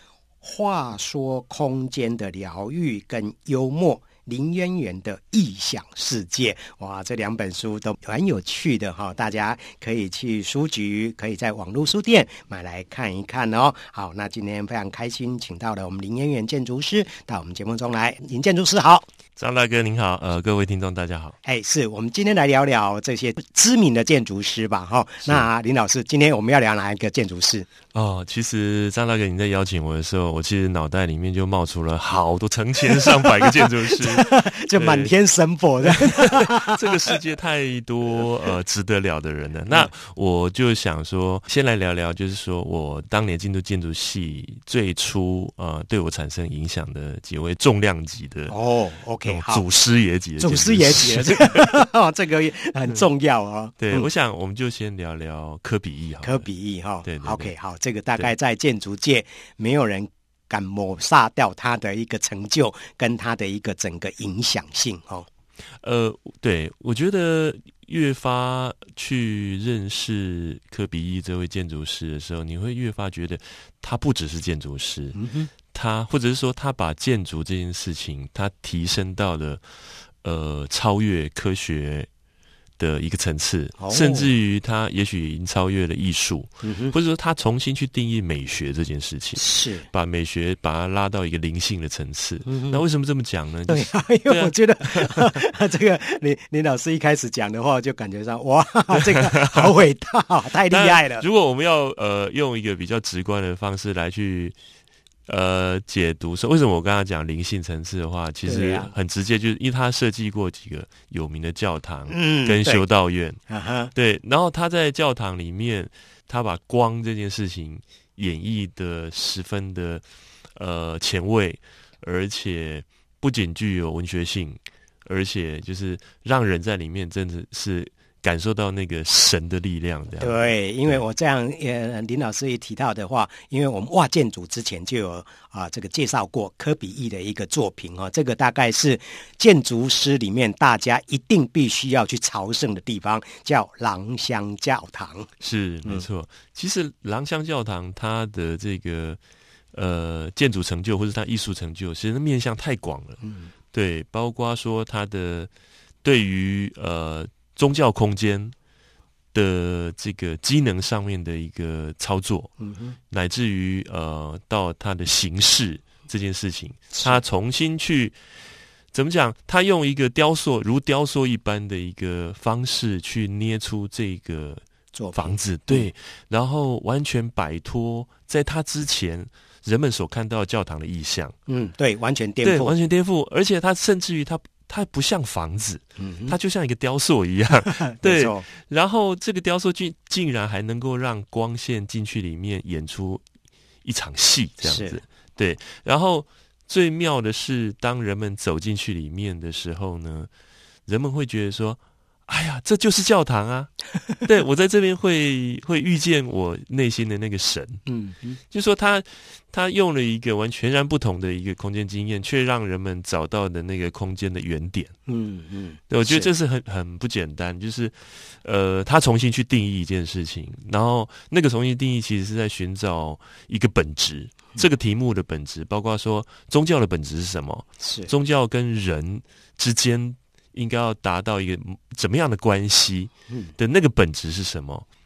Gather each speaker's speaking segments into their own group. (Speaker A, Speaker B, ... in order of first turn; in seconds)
Speaker A: 0.4-19.1, 21.4-27.7, 33.0-33.3, 34.0-37.2, 48.5-49.6, 50.4-54.1, 56.2-65.3, 75.1-75.5, 83.8-84.3, 86.6-87.0, 89.4-89.9, 92.5-92.8, 93.7-101.2, 108.5-108.9, 112.1-112.8, 113.5-113.9, 130.2-145.3, 153.2-153.5, 162.6-163.0, 166.9-167.2, 174.9-175.9, 181.5-182.8, 186.0-186.4, 187.7-188.5, 194.6-195.0, 207.9-208.4, 215.1-216.3, 227.8-228.1
Speaker B: 19.4-21.4, 27.9-35.1, 36.0-48.5, 49.3-51.8, 53.8-56.5, 57.0-57.5, 65.8-75.2, 75.7-79.6, 80.2-82.1, 82.8-95.4, 98.9-99.7, 100.7-104.6, 105.3-113.4, 113.9-120.0, 120.6-131.0, 145.4-149.2, 149.7-153.2, 153.7-155.5, 156.0-158.6, 159.3-162.5, 163.1-168.2, 168.9-174.6, 175.1-181.3, 182.4-193.2, 193.8-200.3, 200.9-203.7, 204.2-207.8, 208.5-214.9, 215.9-234.8